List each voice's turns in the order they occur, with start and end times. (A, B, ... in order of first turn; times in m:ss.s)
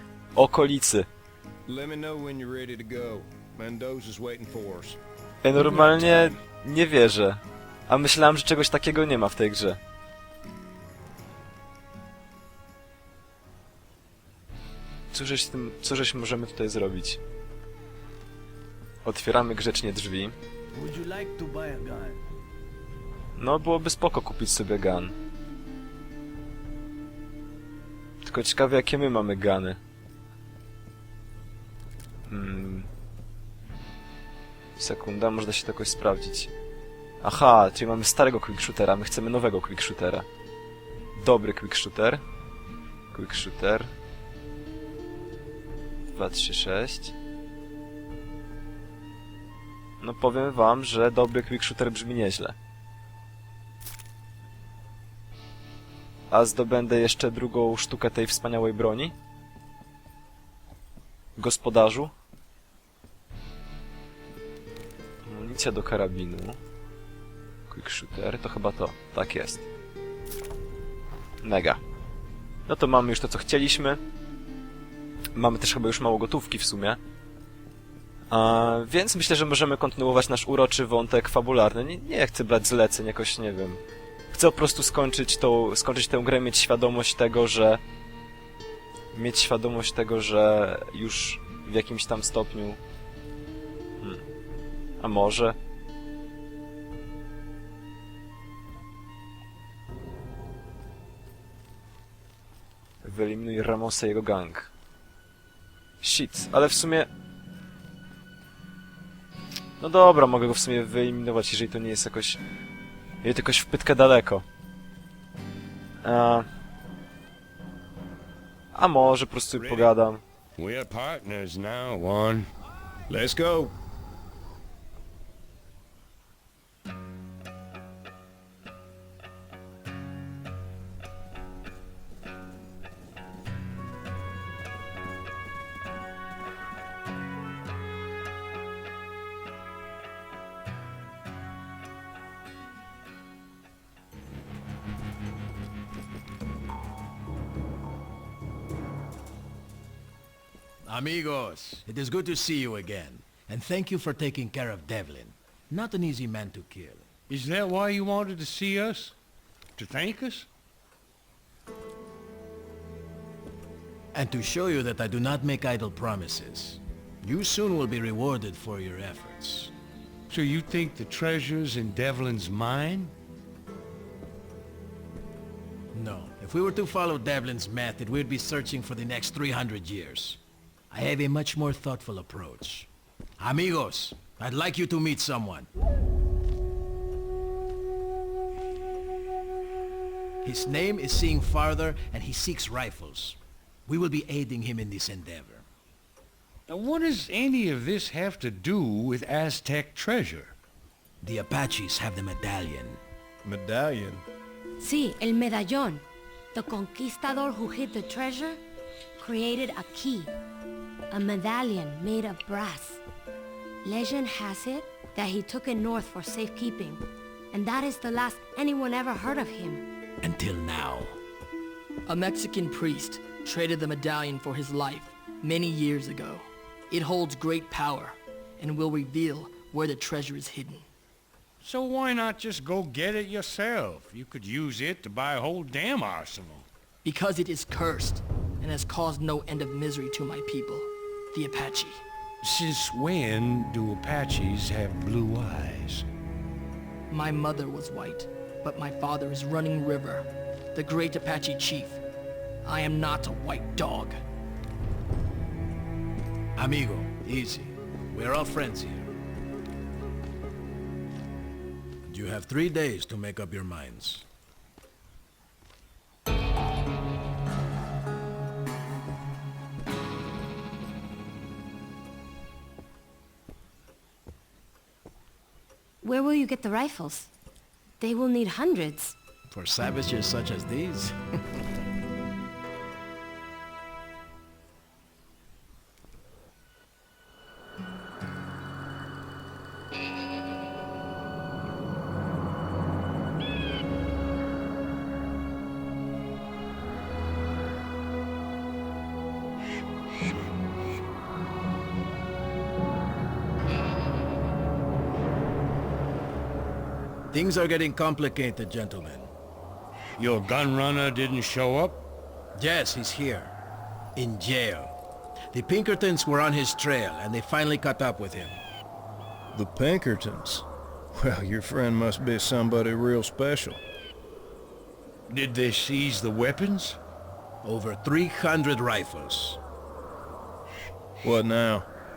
0:00.4-0:01.1 A
0:01.7-0:05.0 B
0:05.4-0:09.8 A
0:15.1-0:17.2 A
0:19.0-0:20.4 A
0:20.7-0:22.2 C
0:23.4-0:25.2 A
0:28.2-0:29.8 A
0:32.3-0:32.9 A
0:34.8-0:36.5 A
0:37.2-0:40.3 A
0:41.2-0:42.2 A
0:43.1-0:43.9 A
0:46.1-0:47.2 A
0:50.0-0:52.6 A
0:56.3-0:59.1 A
1:01.4-1:02.1 A
1:05.2-1:06.6 A
1:07.7-1:09.7 A
1:11.4-1:11.8 A
1:12.7-1:14.0 A
1:15.3-1:17.0 A
1:18.3-1:27.8 A
1:29.1-1:32.8 A
1:35.0-1:35.6 A
1:43.0-1:44.7 A
1:46.0-1:47.1 A
1:49.8-1:52.4 A
1:53.2-1:54.4 A
1:56.0-1:56.5 A
1:58.7-2:00.2 A
1:59.6-1:59.9 B
2:00.6-2:02.5 D
2:03.1-2:03.7 B
2:30.9-2:37.1 C
2:37.3-2:39.2 D
2:39.8-2:40.5 D
2:44.1-2:49.7 C
2:50.3-2:53.1 D
2:55.9-3:00.4 C
3:00.9-3:02.9 C
3:03.4-3:05.7 C
3:10.4-3:15.6 C
3:16.7-3:20.6 D
3:21.2-3:23.0 C
3:23.4-3:24.2 B
3:24.8-3:28.6 E
3:29.2-3:30.3 E
3:31.1-3:33.0 E
3:33.8-3:39.8 E
3:40.2-3:41.2 C
3:42.1-3:50.9 F
3:51.6-3:56.7 D
3:57.0-4:02.0 F
4:02.4-4:06.0 D
4:07.1-4:12.0 F
4:12.6-4:14.2 F
4:16.6-4:19.1 C
4:22.1-4:24.3 C
4:36.0-4:37.3 E
4:38.0-4:39.2 E
4:39.5-4:41.2 C
5:07.3-5:09.3 C
5:10.2-5:12.0 D
5:12.6-5:13.6 C
5:14.2-5:14.9 C
5:15.5-5:18.6 C
5:19.5-5:23.8 B
5:25.3-5:27.0 D
5:27.6-5:29.6 C
5:31.2-5:31.9 B